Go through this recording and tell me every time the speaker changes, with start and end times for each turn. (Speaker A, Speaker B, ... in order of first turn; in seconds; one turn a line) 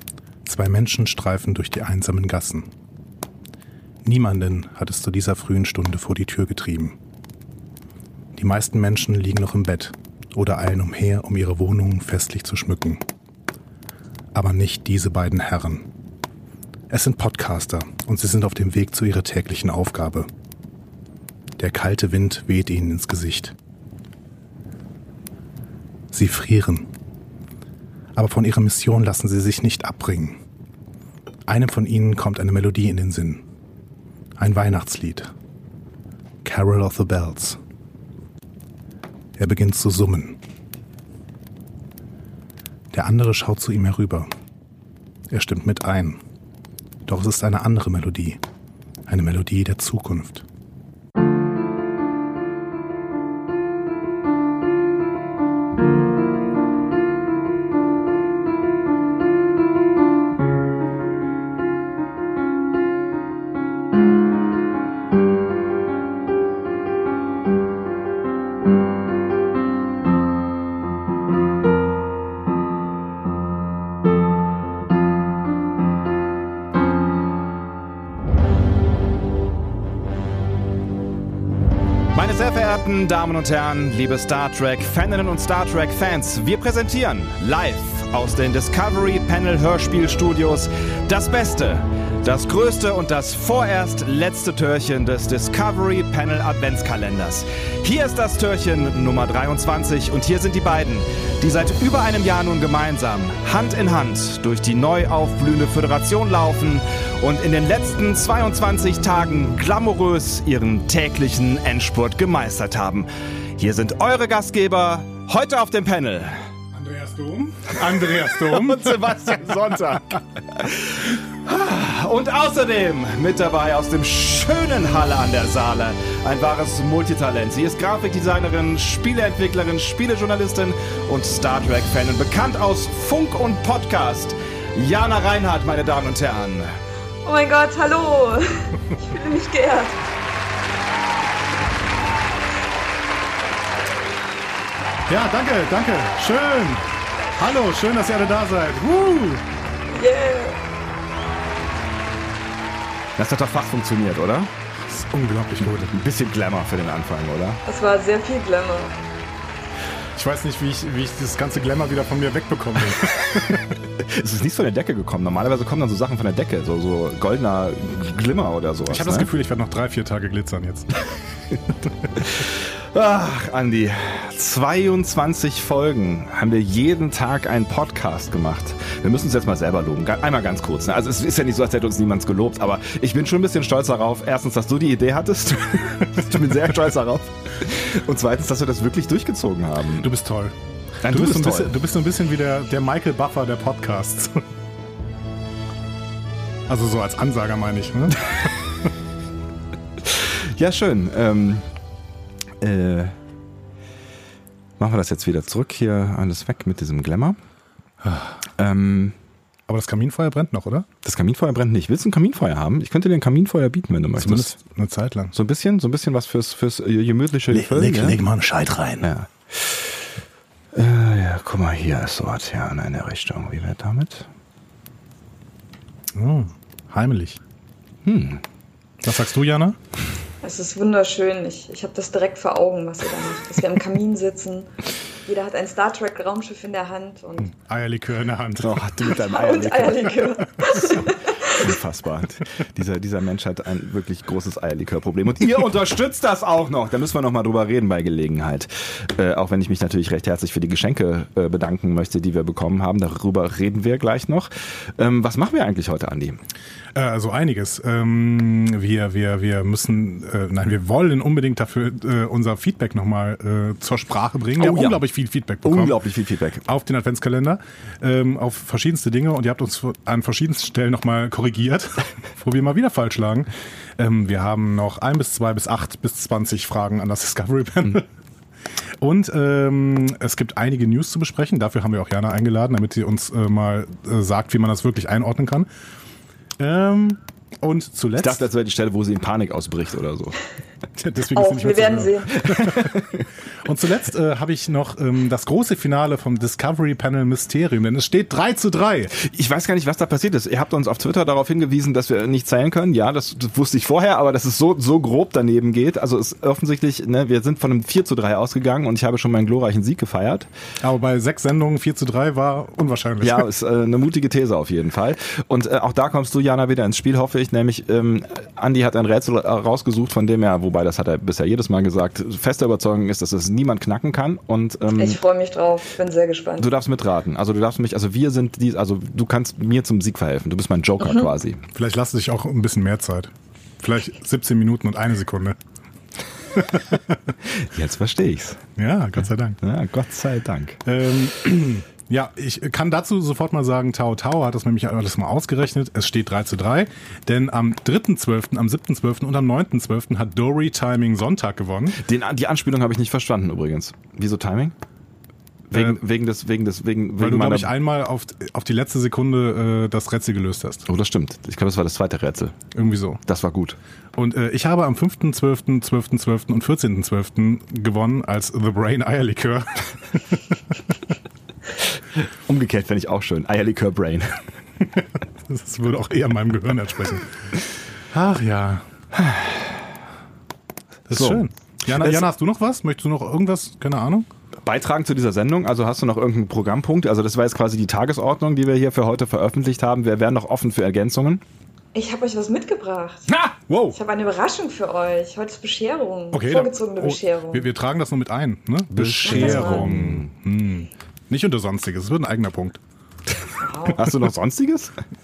Speaker A: 0.4-2.7
Speaker A: 4.0-7.0
Speaker A: 8.3-13.0
Speaker A: 14.3-15.9
Speaker A: 16.9-20.3
Speaker A: 21.6-23.5
Speaker A: 26.1-26.9
Speaker A: 28.1-30.4
Speaker A: 31.5-33.4
Speaker A: 34.4-35.3
Speaker A: 36.4-37.6
Speaker A: 39.4-40.4
Speaker A: 42.9-44.3
Speaker A: 45.3-46.2
Speaker A: 47.0-48.4
Speaker A: 49.1-50.4
Speaker B: 82.1-116.4
Speaker A: 116.7-119.8
Speaker B: 117.9-136.7
Speaker C: 137.2-140.0
Speaker A: 145.1-146.8
Speaker A: 147.3-149.4
Speaker C: 149.9-150.6
Speaker B: 153.2-154.5
Speaker A: 154.8-156.0
Speaker B: 155.9-157.6
Speaker C: 157.7-158.9
Speaker A: 160.1-163.8
Speaker B: 164.0-169.3
Speaker A: 168.8-170.9
Speaker B: 172.2-190.1
Speaker A: 190.0-190.5
Speaker B: 191.0-191.8
Speaker A: 191.1-194.4
Speaker A: 196.7-198.3
Speaker B: 200.0-201.7
Speaker B: 202.6-203.1
Speaker B: 204.8-207.4
Speaker A: 208.0-208.4
Speaker B: 208.6-209.2
Speaker A: 209.7-210.9
Speaker B: 211.0-214.5
Speaker A: 214.2-215.3
Speaker B: 215.3-218.2
Speaker A: 217.5-219.1
Speaker B: 219.0-220.0
Speaker B: 220.7-224.3
Speaker A: 226.1-227.4
Speaker B: 228.0-228.4
Speaker A: 229.0-229.8
Speaker C: 230.4-234.7
Speaker C: 235.2-237.5
Speaker A: 237.4-238.9
Speaker B: 238.6-256.4
Speaker C: 239.0-241.7
Speaker A: 240.6-241.0
Speaker A: 256.9-266.0
Speaker B: 264.6-265.0
Speaker B: 265.6-266.6
Speaker A: 266.6-278.0
Speaker A: 279.0-285.7
Speaker A: 286.6-288.5
Speaker B: 288.2-290.4
Speaker A: 290.9-293.0
Speaker C: 291.3-292.5
Speaker B: 292.5-293.2
Speaker A: 293.6-299.2
Speaker B: 299.1-310.5
Speaker A: 310.8-313.5
Speaker B: 313.2-325.2
Speaker C: 325.0-326.7
Speaker B: 326.6-331.6
Speaker A: 331.7-335.6
Speaker A: 336.5-337.3
Speaker B: 337.4-338.6
Speaker A: 338.8-339.6
Speaker B: 339.6-340.8
Speaker A: 340.8-352.0
Speaker B: 351.9-354.7
Speaker B: 355.7-357.7
Speaker A: 355.7-356.0
Speaker A: 357.2-360.9
Speaker B: 360.9-362.6
Speaker A: 362.7-363.2
Speaker B: 363.2-363.8
Speaker A: 364.1-370.9
Speaker B: 372.4-374.4
Speaker A: 375.5-377.3
Speaker A: 378.1-378.8
Speaker B: 379.1-379.9
Speaker A: 381.1-384.3
Speaker B: 381.1-382.3
Speaker B: 384.6-391.4
Speaker C: 391.9-393.3
Speaker A: 393.7-394.0
Speaker C: 393.9-397.7
Speaker A: 396.3-402.8
Speaker B: 398.9-400.3
Speaker C: 399.2-399.9
Speaker C: 403.6-404.1
Speaker B: 403.9-404.9